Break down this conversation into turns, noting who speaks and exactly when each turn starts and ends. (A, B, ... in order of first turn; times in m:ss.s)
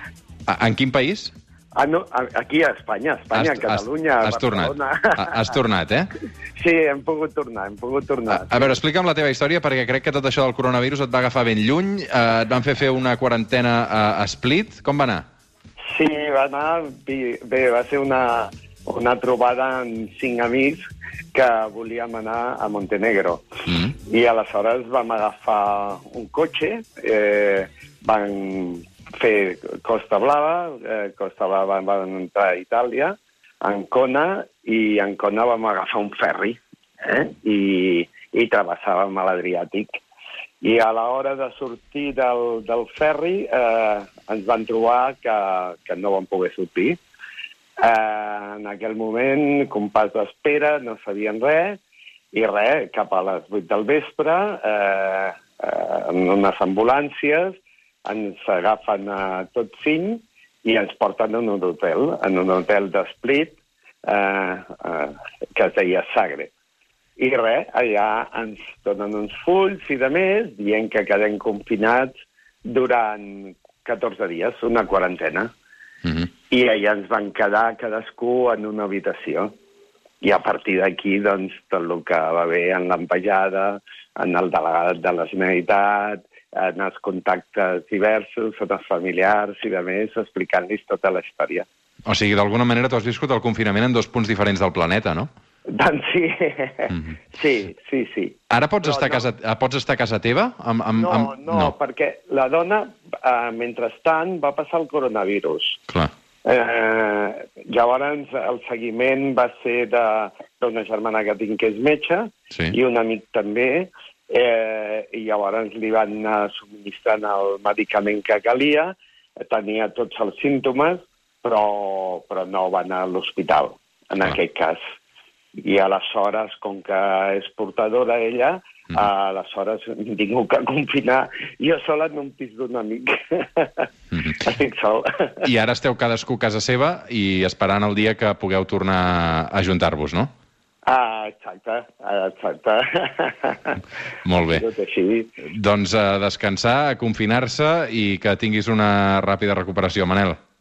0:00.5-0:01.3 A
0:01.7-0:05.5 B
0:03.3-0:06.1 A
0:06.6-0:08.8 B
0:08.3-0:15.2 A
0:15.9-0:20.8 B
0:21.3-0:23.4 B
0:24.0-0:40.0 B
0:40.6-0:47.0 B
0:47.8-0:51.8 B
0:52.3-1:06.5 B
1:07.2-1:12.1 B
1:12.6-1:15.5 B
1:16.5-1:19.6 B
1:20.2-1:31.7 B
1:32.1-1:35.3 A
1:35.7-1:39.3 B
1:38.5-1:41.7 A
1:40.9-1:45.8 B
1:46.4-2:04.8 B
2:05.6-2:13.9 B
2:14.4-2:15.3 B
2:15.4-2:20.3 A
2:20.9-2:23.8 B
2:24.2-2:24.6 A
2:24.5-2:25.3 B
2:25.5-2:30.4 A